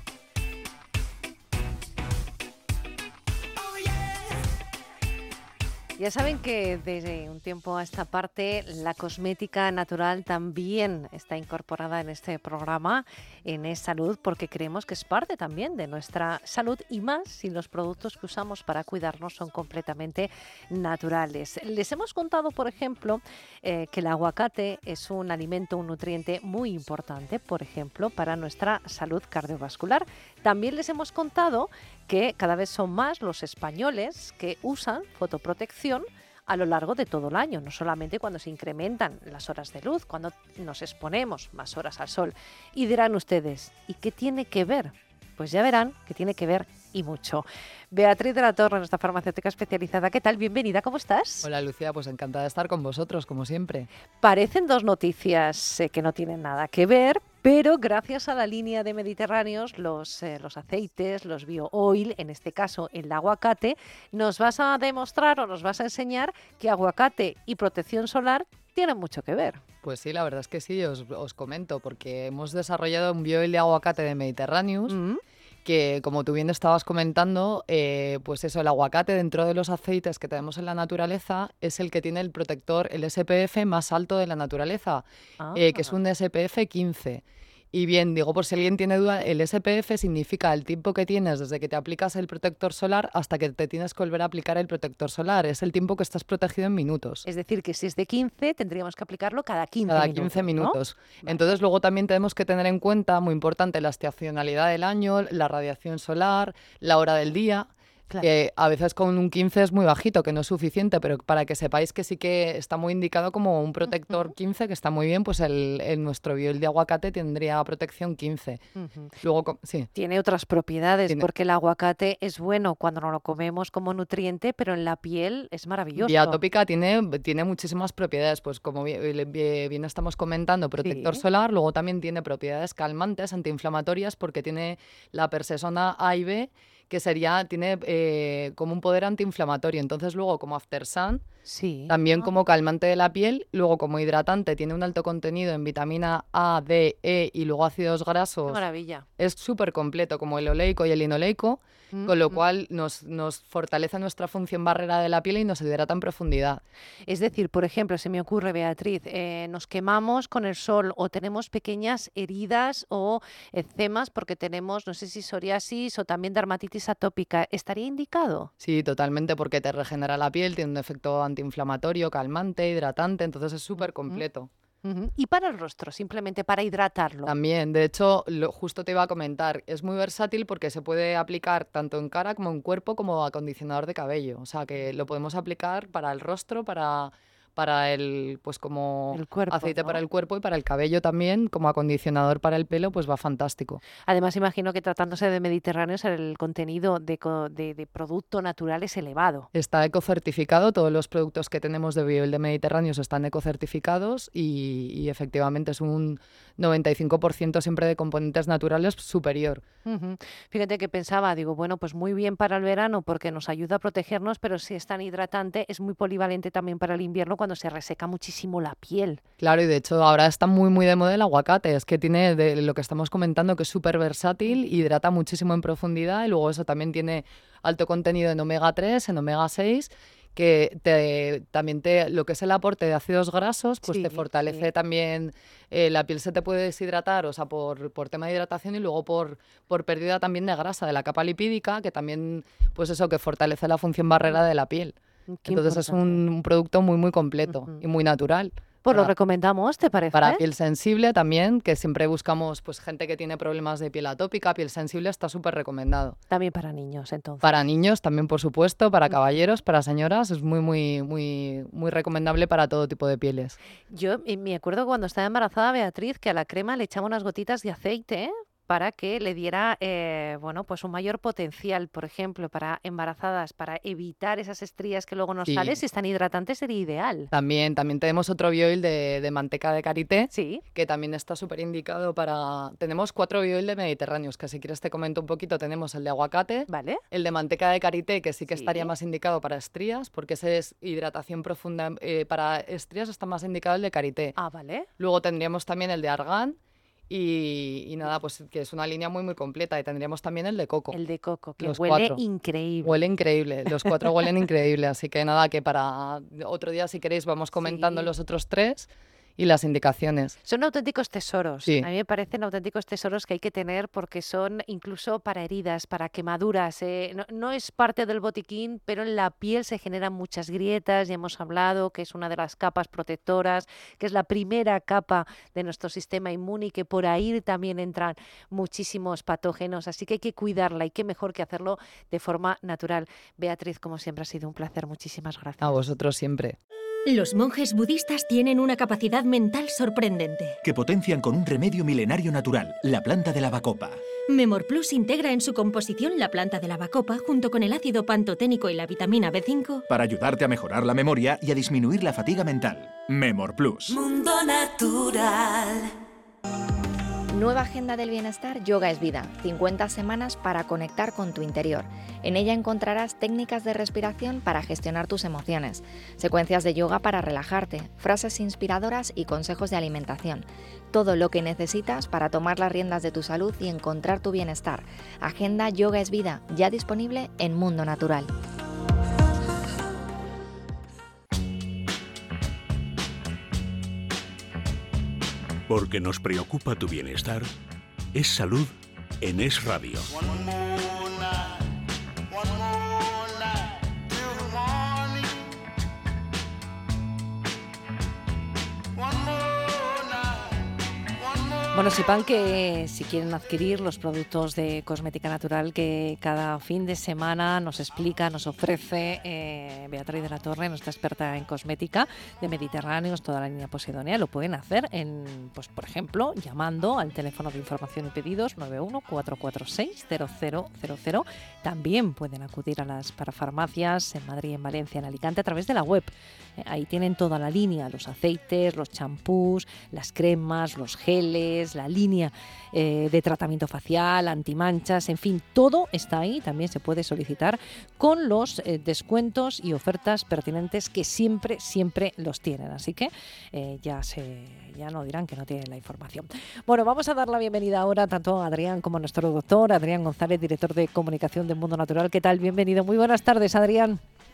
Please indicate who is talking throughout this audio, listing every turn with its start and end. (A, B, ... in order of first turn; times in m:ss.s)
0:06.0-0:51.5 A
0:51.4-0:53.9 B
0:54.2-1:09.6 A
1:09.8-1:15.0 B
1:14.9-1:15.2 A
1:15.6-1:37.2 B
1:25.4-1:26.0 A
1:37.2-1:41.5 A
1:39.9-1:47.7 B
1:48.2-1:58.6 B
1:54.1-1:54.3 A
1:58.8-1:59.1 A
1:59.2-1:59.9 B
1:59.9-2:06.4 A
2:06.0-2:21.2 B
2:10.8-2:11.2 A
2:21.5-2:22.4 A
2:21.9-2:28.6 B
2:28.5-2:29.1 A
2:29.2-2:36.6 B
2:31.9-2:32.4 A
2:37.1-2:48.5 A
2:48.6-2:54.5 B
2:53.8-2:54.2 A
2:54.8-2:57.3 A
2:57.3-3:13.8 B
3:09.1-3:10.0 A
3:14.1-3:19.5 A
3:19.5-3:29.6 B
3:29.9-3:39.2 A
3:39.4-4:09.1 B
3:53.8-3:54.7 A
4:05.3-4:06.2 A
4:07.5-4:07.8 A
4:08.8-4:10.4 A
4:10.1-4:16.2 B
4:16.3-4:17.6 A
4:17.4-4:23.6 B
4:23.9-4:37.3 A
4:35.5-4:35.8 B
4:37.3-4:54.4 B
4:40.3-4:40.6 A
4:46.7-4:47.0 A
4:48.5-4:48.9 A
4:54.4-4:54.9 A
4:55.0-4:56.6 B
4:57.1-5:01.0 B
5:00.9-5:03.0 A
5:01.6-5:02.2 B
5:02.8-5:10.4 B
5:03.8-5:04.4 A
5:07.6-5:08.1 A
5:10.4-5:35.8 A
5:35.6-5:36.6 B
5:37.1-5:40.6 C
5:40.6-5:44.0 D
5:44.3-5:49.8 C
5:49.9-5:54.0 D
5:57.3-6:18.3 E
6:25.7-6:27.5 F
6:28.1-6:30.1 F
6:41.7-7:34.0 A